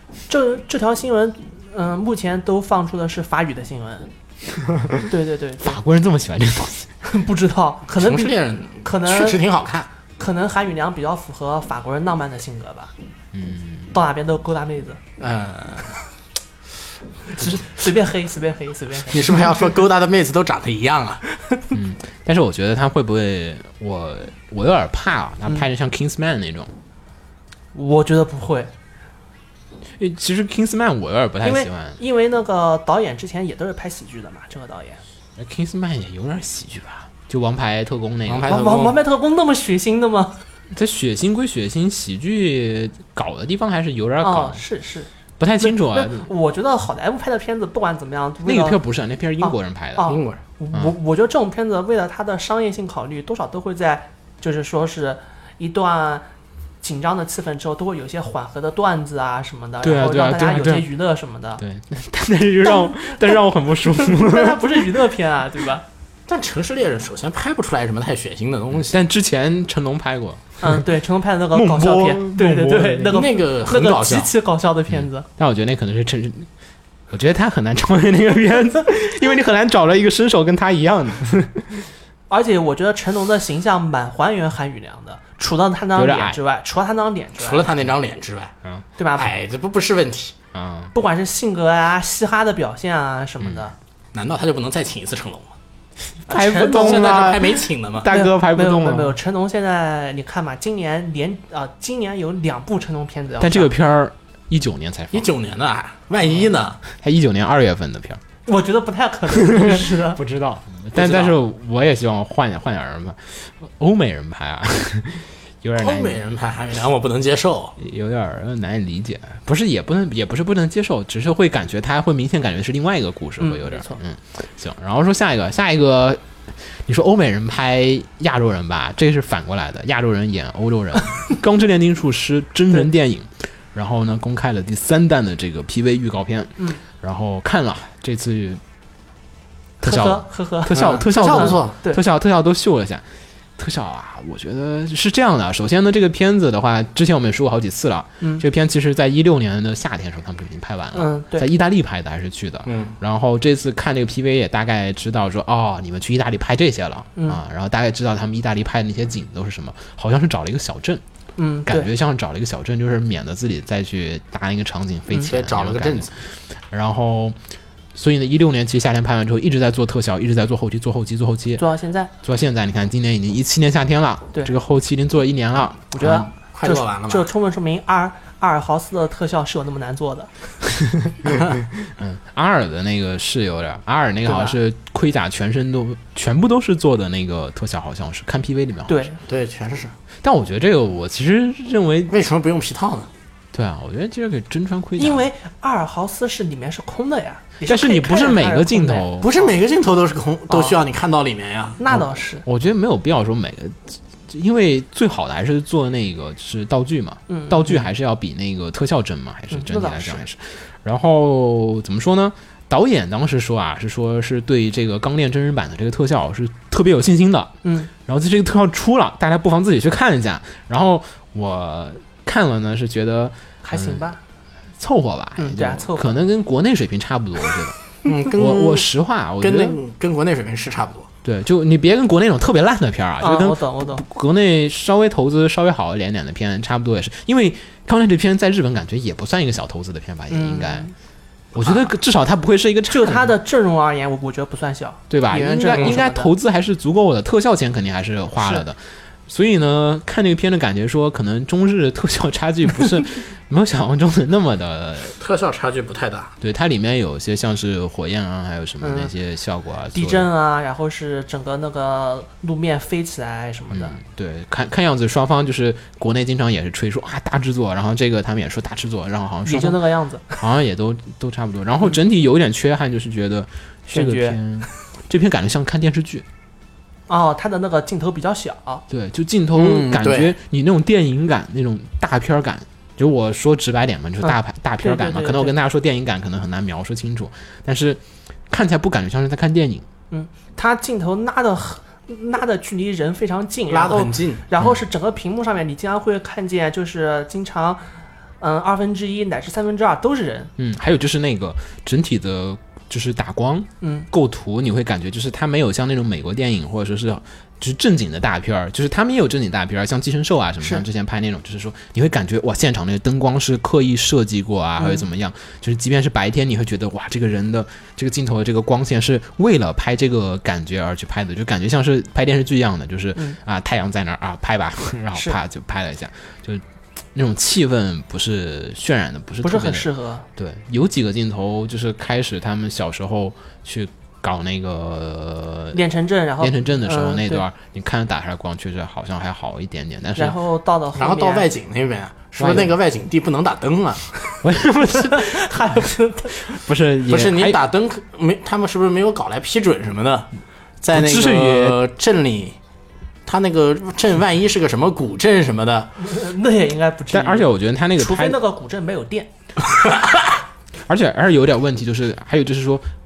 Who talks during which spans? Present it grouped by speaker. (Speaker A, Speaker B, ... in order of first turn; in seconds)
Speaker A: 0.3-4.1, 5.0-5.8, 7.0-9.4, 10.2-12.9, 13.9-15.0, 17.3-19.4, 27.7-28.7, 31.4-35.0, 38.5-40.4, 44.2-48.8, 49.4-56.3, 56.8-61.6, 62.6-65.8, 70.6-75.2, 82.3-87.7, 89.0-89.3, 90.9-93.7, 96.3-97.4, 98.0-103.7, 108.5-110.2, 123.4-124.0, 139.8-142.0, 150.9-151.5, 157.2-157.4, 161.4-161.9, 171.6-172.1, 175.9-180.3, 184.2-184.6, 188.9-189.2, 195.0-199.5, 200.5-200.8, 201.8-202.4, 207.3-207.9, 209.5-210.2, 217.6-217.9, 223.6-224.2, 225.4-226.2, 233.2-234.0, 240.3-240.9, 242.9-246.3, 248.4-248.7, 258.8-259.1, 259.9-264.0, 269.4-270.4, 273.9-274.4, 277.1-278.8, 284.2-285.5, 290.1-297.9, 298.4-300.5, 303.8-304.1, 314.8-315.0, 329.4-330.2, 335.7-337.4, 340.1-341.5, 344.9-346.5, 356.0-359.3
Speaker B: 4.7-5.0, 5.6-6.9, 13.3-13.9, 21.7-26.7, 30.0-32.0, 35.4-38.5, 40.7-44.6, 45.4-46.3, 48.4-50.1, 59.8-60.9, 61.6-65.0, 68.7-70.8, 71.5-73.2, 74.9-76.5, 77.1-81.8, 86.0-86.4, 90.5-90.9, 93.4-93.7, 96.3-99.2, 103.4-105.3, 106.9-108.2, 109.3-116.2, 117.8-138.6, 139.8-143.1, 143.6-161.0, 161.7-167.4, 167.9-171.6, 172.2-176.3, 180.8-189.1, 190.2-192.1, 193.5-195.3, 197.6-199.3, 201.9-224.2, 224.8-227.8, 228.3-229.8, 231.2-240.9, 241.5-243.3, 245.1-255.2, 256.4-260.3, 263.7-276.2, 278.9-289.9, 300.6-335.8, 336.4-340.4, 342.4-342.7, 344.4-345.8, 346.4-347.6, 350.9-351.8, 357.1-358.4, 360.9-362.9
Speaker C: 7.9-9.9, 15.2-16.0, 19.1-21.2, 38.3-39.0, 50.0-50.4, 66.3-69.0, 73.1-74.3, 87.4-88.5, 89.2-90.3, 94.1-95.5, 96.6-98.1, 105.1-106.8, 110.9-111.4, 115.8-117.7, 140.7-141.8, 152.7-152.9, 165.2-166.1, 176.1-177.3, 189.3-189.9, 192.1-193.1, 199.2-201.8, 228.0-228.9, 229.4-231.1, 255.2-256.3, 279.5-280.3, 293.7-294.4, 340.9-344.1, 347.1-350.3, 350.8-352.6, 353.2-356.0